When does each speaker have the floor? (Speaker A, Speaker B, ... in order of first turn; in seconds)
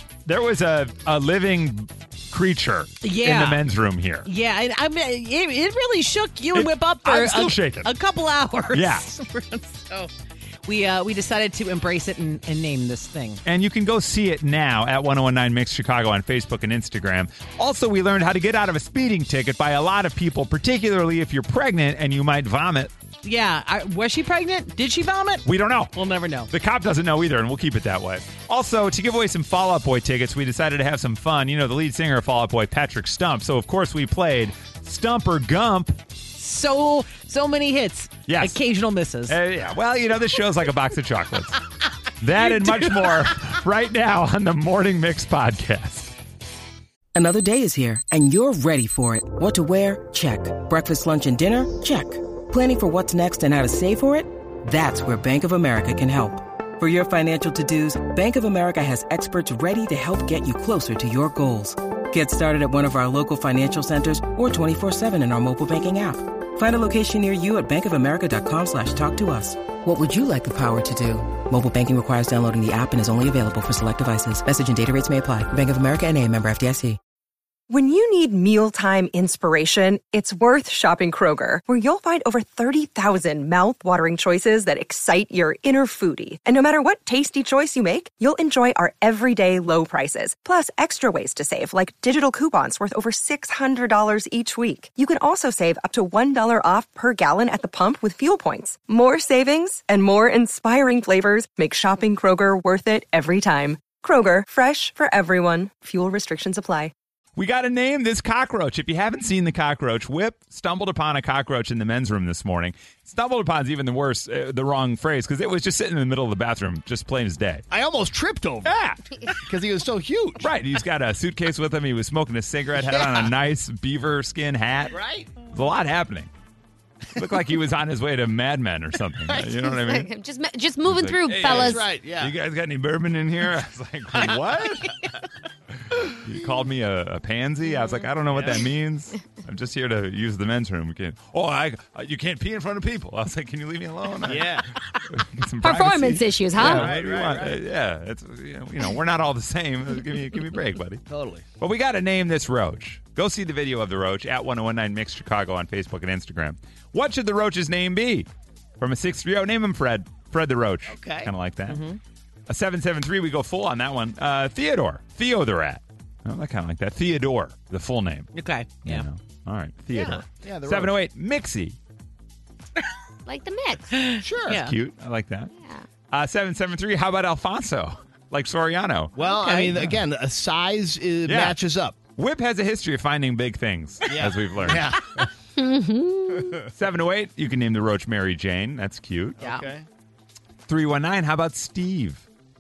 Speaker A: 0.2-4.3, 6.5-7.9, 8.7-9.1, 13.4-22.9, 25.4-25.9, 26.5-36.0, 38.3-38.6, 39.3-41.6, 42.2-46.1, 107.3-117.6, 118.6-119.0, 120.4-125.0, 125.5-126.3, 127.1-130.1, 130.8-134.9, 136.1-151.0, 151.6-158.3, 158.8-161.8, 162.5-168.3, 168.8-171.8, 174.5-175.5, 176.1-179.1, 181.2-181.6, 182.2-184.9, 186.7-189.4, 190.7-192.2
Speaker B: 3.0-3.6, 4.2-10.1, 10.7-13.4, 23.2-26.5, 36.3-39.4, 42.4-43.5, 161.7-162.0, 168.3-169.0, 173.9-174.7, 179.2-179.7, 189.4-189.7
Speaker C: 47.1-77.0
Speaker D: 77.7-106.9
Speaker E: 117.7-118.7, 119.3-120.5, 122.7-123.3, 124.9-125.4, 131.3-132.3, 138.3-138.6, 144.2-144.7, 146.6-147.6, 151.1-151.4, 160.9-161.3, 169.9-170.9, 174.2-174.6, 179.2-181.9, 184.1-185.2, 189.4-189.8
Speaker F: 129.6-131.9, 145.6-147.0, 173.2-174.1, 175.5-175.8, 185.6-186.6